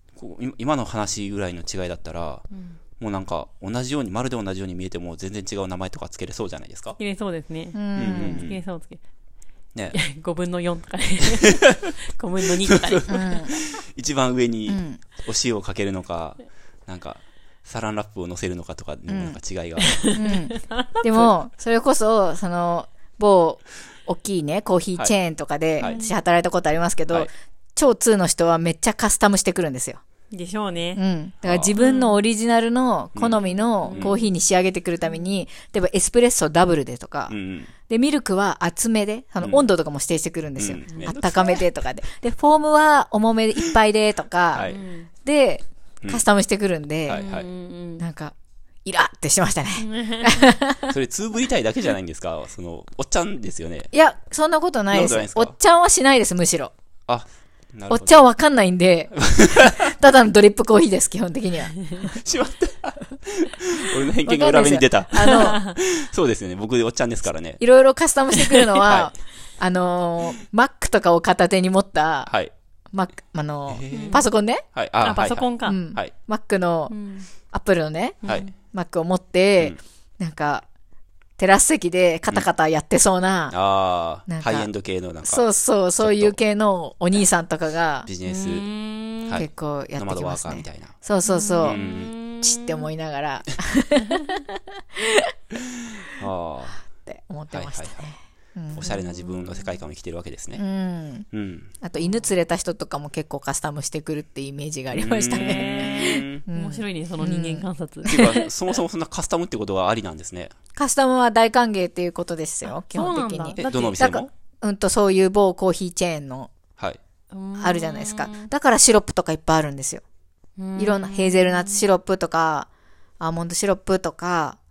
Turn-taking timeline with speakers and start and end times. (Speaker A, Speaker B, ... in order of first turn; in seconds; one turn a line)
Speaker A: 0.2-2.5
Speaker B: 2.5-2.8
Speaker A: 3.0-7.0
Speaker B: 7.0-9.0
Speaker C: 7.7-8.5
Speaker A: 8.0-8.6
Speaker B: 9.9-13.6
Speaker A: 11.5-11.9
Speaker A: 12.7-20.2
Speaker C: 13.1-13.6
Speaker C: 14.7-15.0
Speaker C: 19.1-19.4
Speaker B: 19.8-21.3
Speaker C: 20.1-30.0
Speaker B: 25.8-26.2
Speaker B: 30.3-31.0
Speaker C: 30.9-37.3
Speaker A: 31.4-31.8
Speaker B: 31.8-32.2
Speaker A: 33.1-33.4
Speaker B: 33.4-34.3
Speaker A: 37.3-37.7
Speaker C: 37.9-47.2
Speaker A: 40.6-41.6
Speaker B: 40.9-41.2
Speaker A: 44.5-44.8
Speaker B: 44.7-45.1
Speaker A: 47.1-47.5
Speaker B: 47.1-48.0
Speaker C: 48.0-51.0
Speaker B: 49.8-50.4
Speaker A: 50.9-53.9
Speaker C: 53.9-56.7
Speaker A: 54.9-55.5
Speaker A: 57.1-58.3
Speaker C: 57.9-62.2
Speaker A: 59.2-60.0
Speaker B: 61.8-62.1
Speaker A: 62.1-67.6
Speaker C: 64.2-65.6
Speaker B: 65.2-65.8
Speaker C: 67.6-72.3
Speaker B: 68.4-68.9
Speaker C: 72.9-74.6
Speaker A: 73.7-74.2
Speaker B: 73.9-74.3
Speaker A: 74.7-76.1
Speaker B: 75.0-75.8
Speaker C: 75.7-80.7
Speaker B: 76.9-77.3
Speaker B: 78.2-78.5
Speaker C: 81.4-83.6
Speaker A: 83.5-85.5
Speaker C: 84.3-84.7
Speaker C: 85.2-88.1
Speaker A: 86.0-86.4
Speaker A: 88.1-88.7
Speaker B: 88.2-89.4
Speaker A: 89.3-91.0
Speaker C: 89.3-91.8
Speaker B: 91.2-92.9
Speaker A: 91.6-92.1
Speaker C: 92.4-95.3
Speaker B: 94.0-94.4
Speaker A: 95.9-96.8
Speaker C: 96.9-98.9
Speaker A: 97.5-98.0
Speaker A: 98.7-100.6
Speaker B: 98.8-99.8
Speaker C: 100.6-101.3
Speaker A: 101.3-101.7
Speaker C: 101.8-108.4
Speaker B: 102.0-102.2
Speaker A: 104.9-106.4
Speaker B: 105.3-108.5
Speaker A: 108.1-110.5
Speaker C: 110.8-113.6
Speaker B: 112.7-114.3
Speaker A: 113.6-114.3
Speaker C: 114.6-116.5
Speaker B: 117.3-118.5
Speaker C: 117.6-120.0
Speaker B: 120.6-121.9
Speaker C: 120.8-122.7
Speaker C: 123.2-124.6